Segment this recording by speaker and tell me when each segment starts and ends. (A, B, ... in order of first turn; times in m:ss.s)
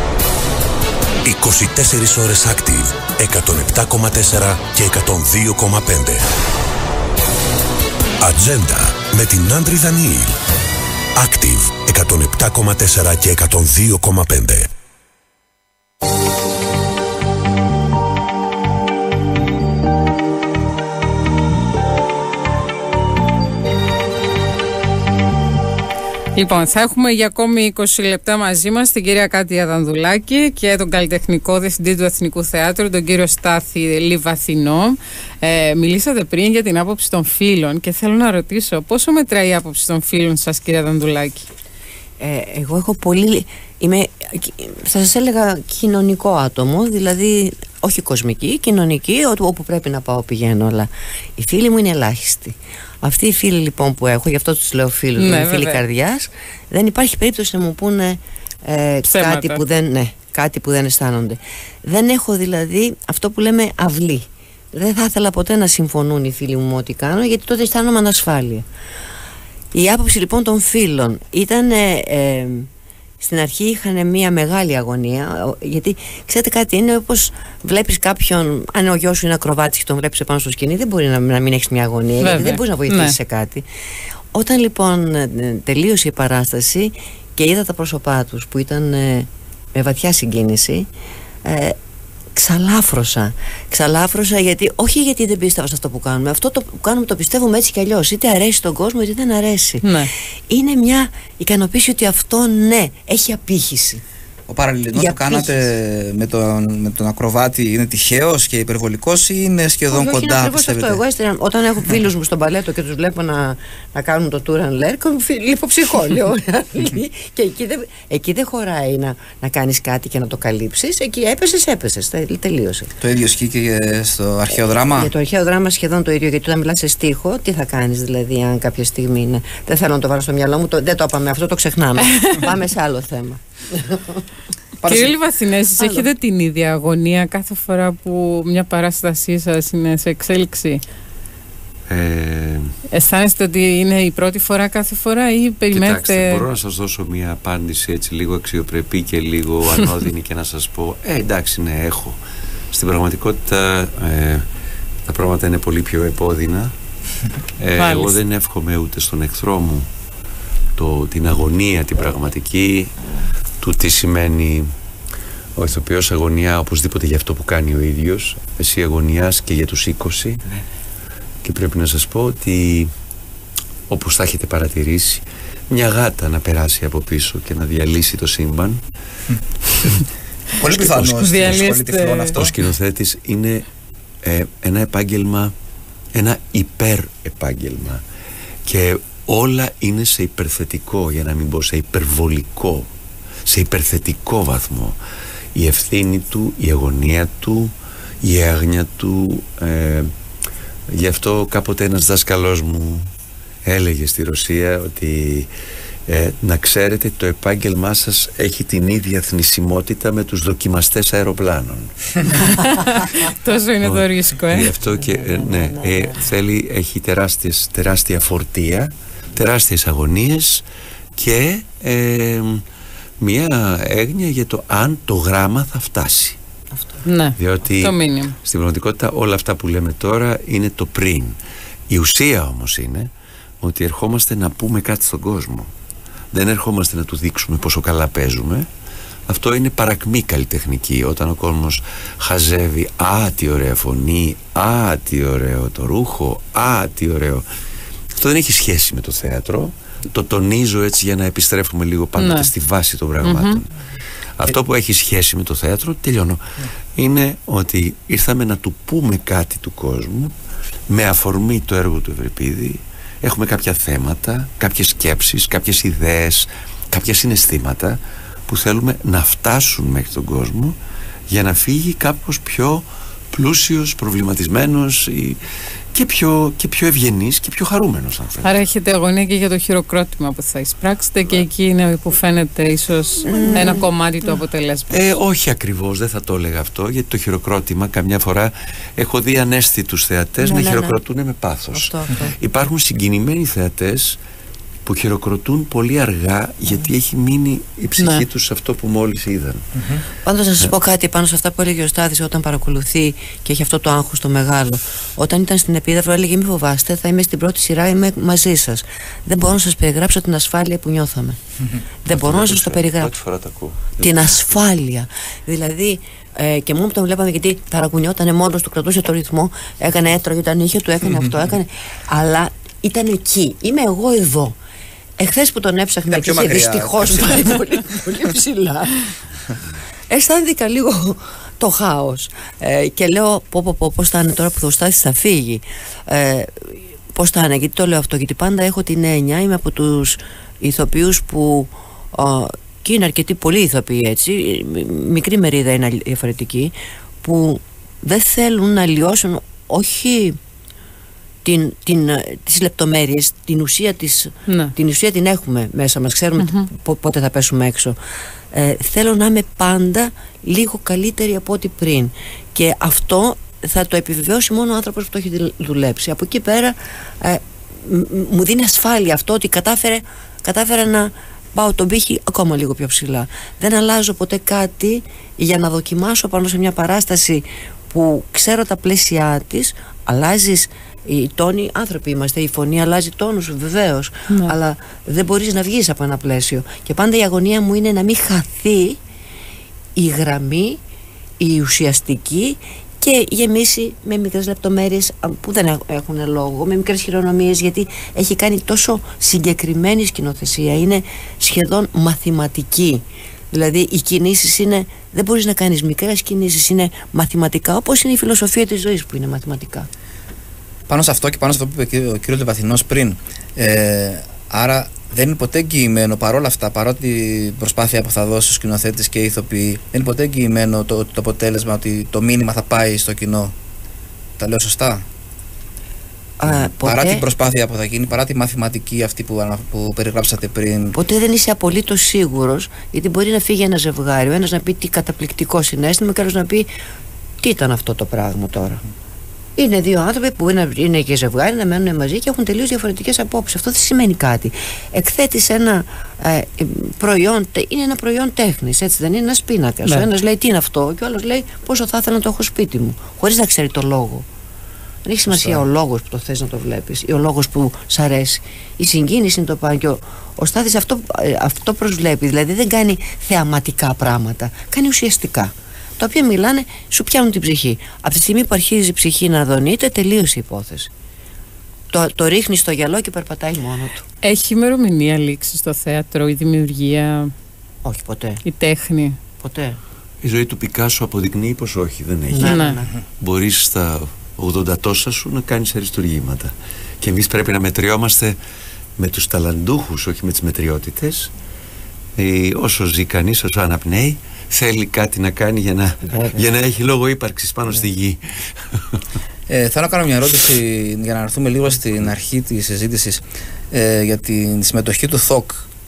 0:01.2-0:06.2 A
0:08.2-0:10.4 A
0:11.1-0:14.7 A
0:26.3-0:41.5 B
0:42.2-1:08.6 C
0:55.2-0:55.8 B
0:59.0-0:59.6 B
1:09.7-1:12.7 C
1:13.2-1:23.6 C
1:22.2-1:23.2 B
1:24.3-1:30.8 C
1:31.4-1:31.8 C
1:32.4-1:39.9 C
1:39.8-1:40.1 B
1:40.5-1:44.0 C
1:44.5-1:51.0 D
1:44.9-1:45.7 C
1:49.9-2:02.9 C
2:03.0-2:05.1 D
2:04.9-2:14.2 C
2:14.8-2:15.2 D
2:14.8-2:20.8 B
2:21.9-2:22.7 E
2:22.9-2:26.4 B
2:25.7-2:32.2 E
2:32.7-2:34.4 E
2:35.1-2:36.7 E
2:37.6-2:39.8 E
2:37.8-2:38.2 B
2:40.8-2:42.9 E
2:43.6-2:44.7 E
2:45.6-2:50.4 E
2:51.4-2:52.9 E
2:53.9-2:58.8 E
3:00.6-3:02.6 D
3:00.7-3:02.4 B
3:01.0-3:01.4 E
3:02.3-3:03.6 E
3:04.2-3:05.5 E
3:06.1-3:08.0 E
3:08.6-3:12.9 E
3:13.4-3:15.0 E
3:15.5-3:20.1 E
3:20.9-3:23.1 E
3:23.6-3:25.5 E
3:26.1-3:32.0 E
3:32.4-3:34.7 B
3:33.8-3:40.6 E
3:35.0-3:36.1 C
3:41.2-3:42.6 E
3:43.2-3:46.4 E
3:46.7-3:47.0 C
3:47.0-3:48.4 B
3:47.4-3:51.4 E
3:51.9-3:53.1 E
3:53.6-3:55.7 E
3:56.3-3:58.7 E
3:59.3-4:07.4 E
4:08.2-4:13.7 E
4:12.2-4:12.5 B
4:13.2-4:13.6 B
4:14.4-4:16.4 E
4:17.0-4:20.3 E
4:20.9-4:30.8 E
4:31.3-4:35.4 E
4:35.9-4:38.5 E
4:38.4-4:45.1 B
4:43.3-4:43.8 C
4:44.9-4:54.2 E
4:50.4-4:51.0 C
4:51.7-4:52.4 C
4:54.8-4:59.7 E
4:58.0-4:58.2 B
5:00.2-5:11.4 C
5:12.0-5:13.1 C
5:12.1-5:14.6 E
5:14.0-5:24.5 C
5:25.2-5:29.1 C
5:26.1-5:27.4 D
5:30.1-5:50.4 C
5:51.4-5:58.0 C
5:54.5-5:54.7 B
5:56.4-5:56.7 B
5:58.5-6:29.0 C
6:24.3-6:24.5 B
6:30.0-6:30.8 C
6:31.4-6:49.9 C
6:50.9-7:03.5 D
7:04.4-7:05.0 D
7:06.4-7:07.2 C
7:06.8-7:11.0 D
7:10.9-7:16.7 C
7:17.4-7:18.8 C
7:19.6-7:34.2 C
7:35.0-7:50.9 C
7:51.9-7:54.0 C
7:54.2-7:57.3 B
7:57.8-7:58.4 C
7:58.4-7:59.2 B
7:59.4-7:59.8 C
8:00.2-8:02.7 E
8:02.3-8:02.9 C
8:02.4-8:02.8 B
8:03.2-8:08.4 E
8:09.0-8:11.3 E
8:12.2-8:18.2 E
8:19.5-8:25.6 D